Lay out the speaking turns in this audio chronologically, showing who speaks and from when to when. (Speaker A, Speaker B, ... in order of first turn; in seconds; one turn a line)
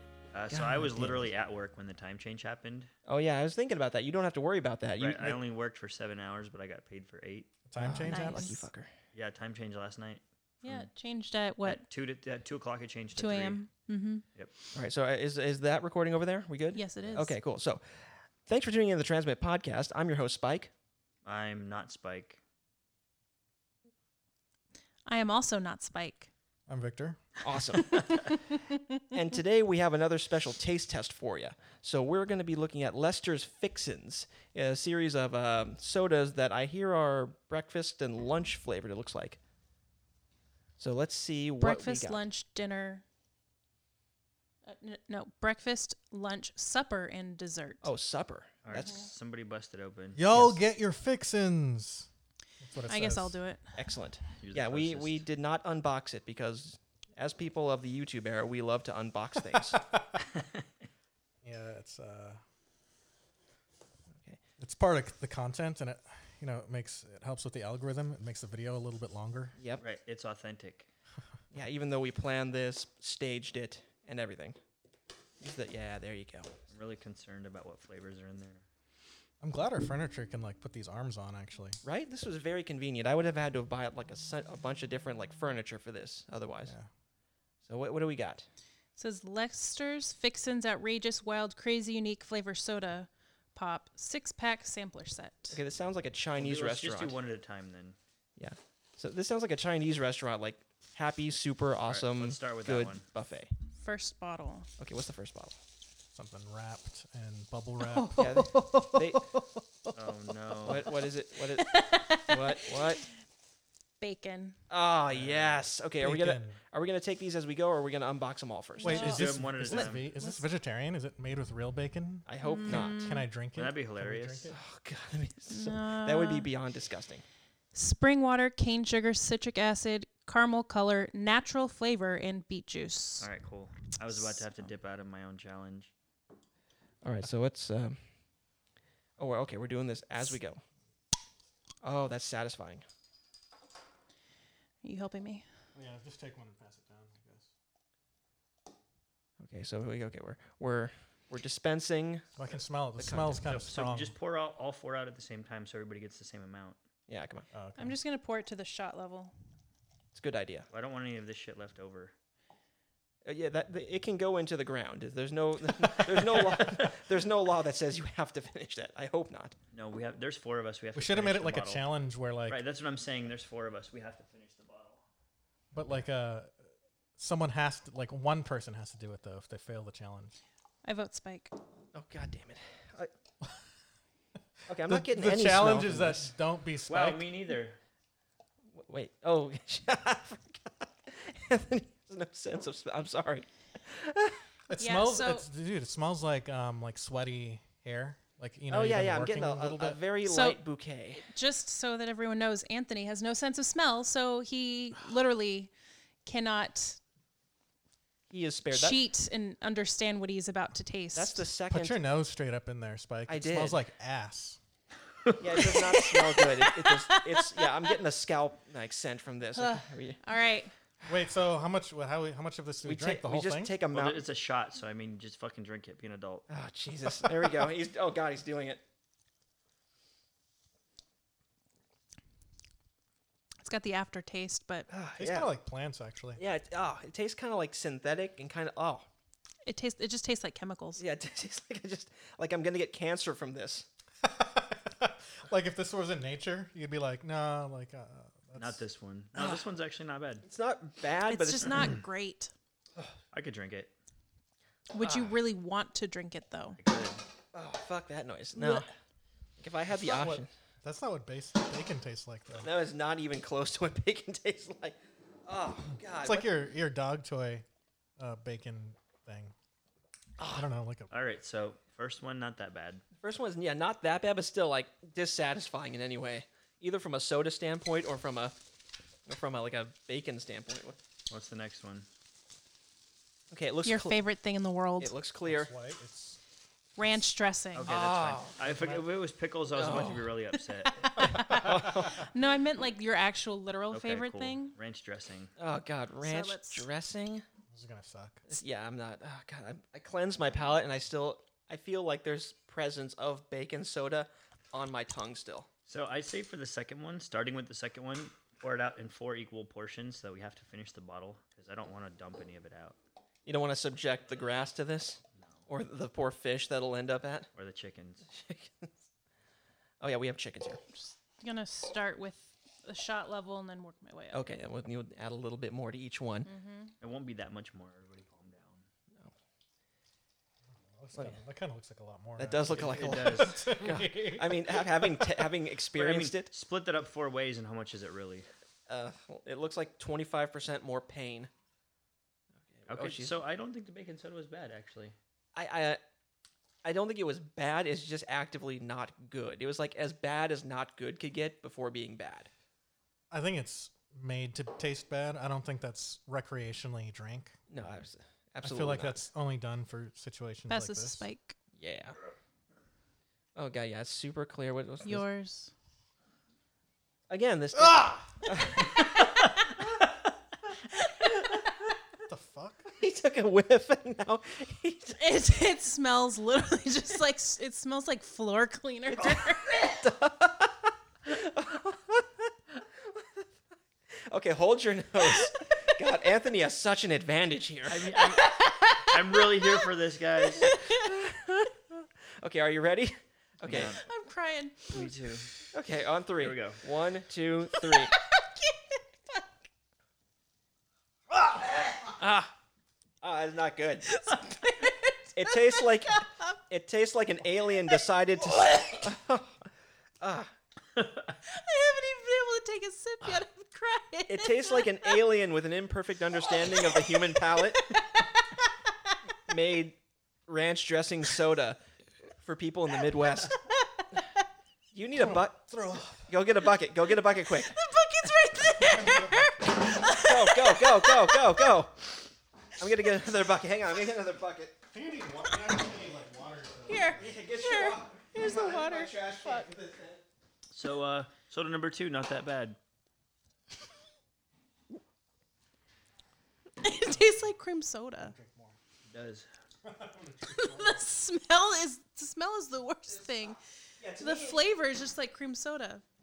Speaker A: 0.3-2.9
Speaker B: 0.5-1.1
Speaker B: 3.1-5.4
Speaker A: 5.0-7.5
Speaker C: 7.7-8.5
Speaker B: 7.8-8.9
Speaker D: 8.1-8.7
Speaker A: 9.1-10.9
Speaker D: 10.6-11.8
Speaker A: 11.6-13.6
Speaker D: 13.2-14.2
Speaker B: 14.7-20.7
Speaker D: 16.7-17.3
Speaker A: 17.0-17.3
Speaker A: 21.2-22.4
Speaker D: 25.1-26.3
Speaker C: 26.7-27.2
Speaker B: 27.4-28.1
Speaker D: 28.1-28.8
Speaker B: 29.1-39.4
Speaker B: 40.8-42.3
Speaker D: 41.6-43.0
Speaker D: 44.6-47.9
Speaker B: 47.8-49.0
Speaker A: 48.6-50.6
Speaker D: 48.7-49.1
Speaker C: 50.2-52.1
Speaker C: 52.6-53.4
Speaker D: 52.9-53.8
Speaker B: 53.8-59.8
Speaker A: 54.4-55.2
Speaker C: 59.5-60.1
Speaker C: 61.4-62.4
Speaker C: 64.6-69.6
Speaker A: 69.8-70.9
Speaker B: 71.5-74.6
Speaker B: 75.4-76.5
Speaker A: 76.7-78.6
Speaker C: 79.4-81.8
Speaker B: 81.8-86.7
Speaker B: 87.7-88.5
Speaker D: 89.0-95.6
Speaker B: 95.5-97.2
Speaker A: 96.4-98.0
Speaker B: 98.4-103.5
Speaker A: 101.9-103.0
Speaker D: 103.8-104.7
Speaker B: 104.8-105.6
Speaker C: 106.2-109.9
Speaker D: 107.8-108.5
Speaker B: 108.2-109.2
Speaker A: 109.9-110.9
Speaker B: 110.7-113.0
Speaker D: 111.6-113.1
Speaker D: 114.0-114.6
Speaker B: 114.7-119.3
Speaker A: 115.1-115.7
Speaker C: 116.0-116.6
Speaker D: 118.8-120.5
Speaker C: 118.8-124.6
Speaker A: 118.9-120.1
Speaker B: 122.3-123.0
Speaker D: 122.4-123.3
Speaker A: 123.5-124.5
Speaker B: 124.5-127.2
Speaker D: 125.5-126.5
Speaker D: 127.7-133.3
Speaker A: 133.2-135.9
Speaker B: 137.0-138.0
Speaker B: 139.2-140.6
Speaker B: 141.8-142.8
Speaker D: 144.8-145.4
Speaker C: 145.8-147.5
Speaker B: 149.4-152.3
Speaker C: 152.4-154.1
Speaker B: 153.0-153.6
Speaker A: 153.4-156.8
Speaker B: 157.1-157.5
Speaker C: 157.5-158.0
Speaker D: 157.8-159.3
Speaker B: 160.2-160.7
Speaker A: 160.7-162.1
Speaker B: 163.2-169.6
Speaker A: 166.1-166.7
Speaker A: 169.7-171.9
Speaker C: 170.9-172.6
Speaker A: 172.5-175.0
Speaker C: 175.7-176.5
Speaker C: 177.2-180.3
Speaker D: 180.8-181.5
Speaker B: 181.9-183.1
Speaker B: 184.7-186.2
Speaker C: 184.7-187.2
Speaker A: 186.9-187.8
Speaker B: 188.7-194.4
Speaker C: 194.7-200.0
Speaker D: 194.8-195.5
Speaker B: 198.7-201.2
Speaker D: 200.2-200.6
Speaker D: 201.2-205.7
Speaker D: 206.2-207.0
Speaker B: 208.3-209.0
Speaker D: 208.7-211.5
Speaker B: 211.1-212.0
Speaker C: 211.7-214.6
Speaker B: 213.3-213.8
Speaker B: 215.4-220.2
Speaker D: 215.6-217.7
Speaker D: 219.6-220.7
Speaker C: 221.1-223.8
Speaker B: 222.8-224.2
Speaker A: 223.9-226.5
Speaker B: 226.5-228.8
Speaker D: 233.6-234.9
Speaker B: 234.9-235.5
Speaker C: 235.2-236.4
Speaker B: 236.4-239.1
Speaker D: 239.7-241.0
Speaker B: 241.0-243.9
Speaker C: 244.2-248.8
Speaker A: 248.6-250.4
Speaker B: 249.4-249.6
Speaker B: 250.4-251.9
Speaker D: 251.3-252.5
Speaker A: 253.3-253.9
Speaker D: 254.9-256.8
Speaker B: 255.0-255.3
Speaker A: 256.8-257.2
Speaker B: 257.5-258.9
Speaker D: 258.6-258.9
Speaker B: 259.6-260.5
Speaker C: 260.0-262.7
Speaker B: 262.6-266.5
Speaker C: 266.2-267.6
Speaker C: 268.2-269.5
Speaker B: 270.4-270.7
Speaker C: 270.5-271.1
Speaker A: 271.1-273.0
Speaker B: 273.2-278.6
Speaker B: 279.3-281.0
Speaker A: 281.3-282.1
Speaker B: 283.5-284.2
Speaker D: 283.9-285.1
Speaker B: 285.0-285.7
Speaker C: 285.4-286.4
Speaker D: 287.0-287.9
Speaker A: 287.7-291.1
Speaker B: 287.9-288.6
Speaker C: 288.6-289.1
Speaker B: 289.7-290.4
Speaker D: 290.9-294.7
Speaker B: 291.2-292.3
Speaker C: 291.3-292.1
Speaker A: 293.9-295.5
Speaker B: 295.6-297.4
Speaker D: 296.2-296.9
Speaker C: 297.7-298.4
Speaker B: 298.5-305.7
Speaker A: 305.9-313.0
Speaker B: 313.5-317.5
Speaker A: 317.6-318.3
Speaker B: 318.3-319.0
Speaker B: 320.0-320.8
Speaker D: 321.0-324.5
Speaker B: 324.3-326.5
Speaker D: 326.5-326.9
Speaker A: 327.0-328.9
Speaker C: 330.9-335.4
Speaker B: 332.4-336.5
Speaker A: 332.7-333.7
Speaker A: 335.9-338.5
Speaker B: 338.9-341.5
Speaker B: 342.7-343.4
Speaker A: 342.9-345.1
Speaker B: 345.6-346.0
Speaker B: 346.8-352.5
Speaker C: 353.3-357.6
Speaker B: 357.7-359.2
Speaker C: 358.6-361.2
Speaker D: 360.7-361.6
Speaker B: 361.8-362.2
Speaker B: 363.6-365.2
Speaker D: 365.1-365.7
Speaker B: 367.3-369.0
Speaker C: 367.8-368.3
Speaker D: 368.9-369.5
Speaker D: 370.9-371.6
Speaker C: 372.3-372.9
Speaker B: 372.9-375.2
Speaker D: 375.2-380.0
Speaker B: 379.9-383.4
Speaker B: 384.3-388.2
Speaker A: 387.9-390.8
Speaker D: 388.2-391.2
Speaker B: 390.9-393.9
Speaker A: 393.6-394.1
Speaker D: 393.9-395.2
Speaker A: 394.9-395.5
Speaker B: 395.7-398.2
Speaker A: 396.4-396.8
Speaker D: 397.8-399.4
Speaker B: 402.0-402.5
Speaker B: 403.2-404.1
Speaker D: 404.1-406.3
Speaker B: 405.4-409.6
Speaker B: 410.2-410.5
Speaker A: 411.0-411.3
Speaker D: 411.5-415.2
Speaker B: 414.3-417.8
Speaker D: 416.5-418.7
Speaker B: 419.5-421.8
Speaker B: 422.4-423.6
Speaker D: 423.5-424.3
Speaker B: 424.9-425.6
Speaker C: 425.1-426.3
Speaker B: 426.3-427.7
Speaker D: 427.5-431.7
Speaker C: 428.8-429.7
Speaker B: 430.1-432.1
Speaker B: 432.8-434.8
Speaker C: 434.9-437.4
Speaker D: 435.5-435.8
Speaker D: 436.9-439.7
Speaker B: 437.2-440.2
Speaker A: 440.7-442.8
Speaker D: 446.8-448.4
Speaker C: 448.2-448.8
Speaker A: 449.1-449.5
Speaker C: 449.8-451.0
Speaker D: 450.5-453.6
Speaker B: 453.1-454.6
Speaker D: 454.2-456.0